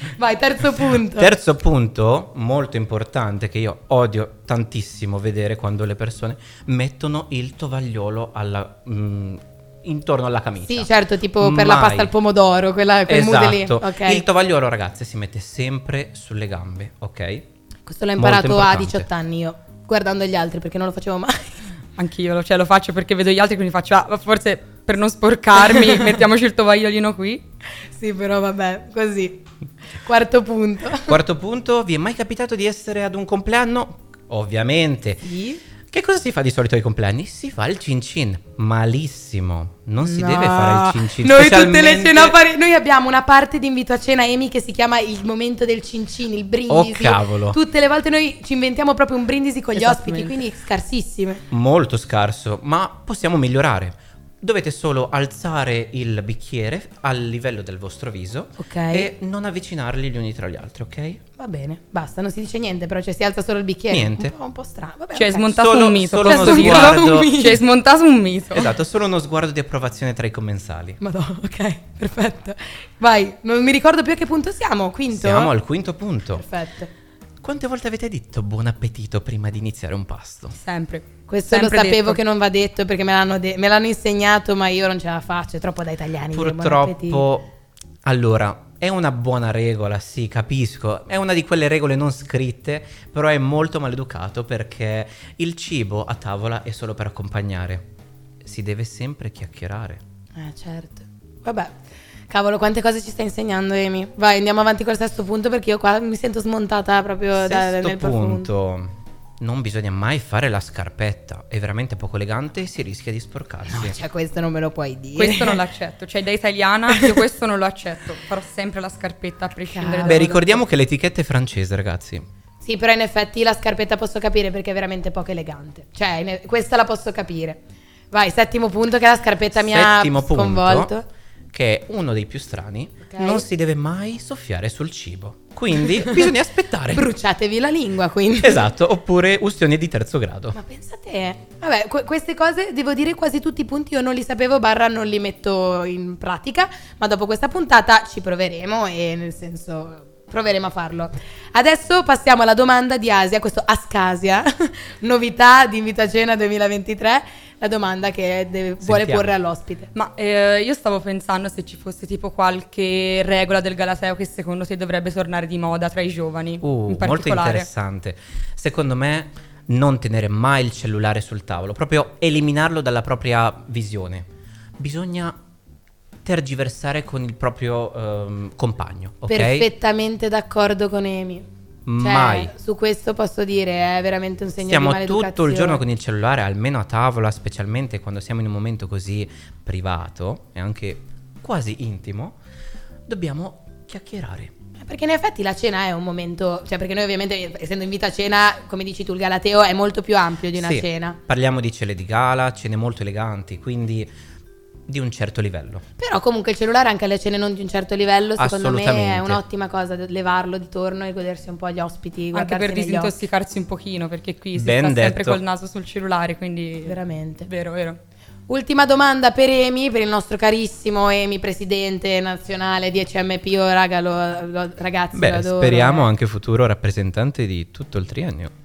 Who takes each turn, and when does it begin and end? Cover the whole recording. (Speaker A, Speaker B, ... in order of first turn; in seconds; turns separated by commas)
Speaker A: 0.1-1.3, Speaker B: 0.8-12.1, Speaker A: 10.6-14.2, Speaker B: 13.1-17.5, Speaker A: 17.9-21.6, Speaker B: 18.2-19.1, Speaker C: 22.0-27.4, Speaker A: 25.7-26.1, Speaker A: 27.9-29.4, Speaker A: 30.0-31.1, Speaker B: 31.1-35.2, Speaker A: 35.2-35.6, Speaker B: 35.9-42.4, Speaker A: 40.0-51.4, Speaker B: 46.7-47.6, Speaker C: 49.8-50.4, Speaker B: 51.5-61.2, Speaker A: 58.6-59.1, Speaker A: 61.4-65.5, Speaker B: 63.9-64.3, Speaker C: 65.1-68.7, Speaker B: 65.5-67.3, Speaker A: 66.2-67.6, Speaker B: 68.5-71.0, Speaker A: 71.0-75.5, Speaker B: 75.1-76.5, Speaker A: 76.3-76.9, Speaker B: 77.4-80.5, Speaker C: 80.5-82.2, Speaker A: 81.3-87.2, Speaker B: 86.3-87.4, Speaker B: 88.0-97.8, Speaker B: 98.4-100.0, Speaker A: 100.4-101.7, Speaker A: 102.3-108.5, Speaker B: 107.3-114.0, Speaker A: 113.7-115.6, Speaker C: 115.2-120.5, Speaker A: 116.9-117.1, Speaker A: 119.7-120.4, Speaker B: 120.0-122.2, Speaker A: 122.6-127.6, Speaker A: 128.1-131.0, Speaker B: 129.5-130.9, Speaker B: 131.5-137.1, Speaker A: 133.1-133.4, Speaker A: 136.9-138.6, Speaker B: 138.4-140.6, Speaker A: 140.5-159.9, Speaker B: 158.8-159.3, Speaker C: 159.9-167.7, Speaker B: 166.6-175.4, Speaker B: 176.2-179.7, Speaker A: 179.3-181.5, Speaker B: 181.8-182.5, Speaker A: 182.0-185.8, Speaker B: 184.7-192.4, Speaker B: 193.1-194.5, Speaker A: 194.8-201.2, Speaker B: 200.5-204.1, Speaker B: 204.9-205.8, Speaker A: 206.0-213.1, Speaker B: 208.4-209.4, Speaker C: 212.3-218.0, Speaker B: 214.5-215.4, Speaker A: 216.8-217.5, Speaker A: 218.5-226.1, Speaker B: 225.1-228.5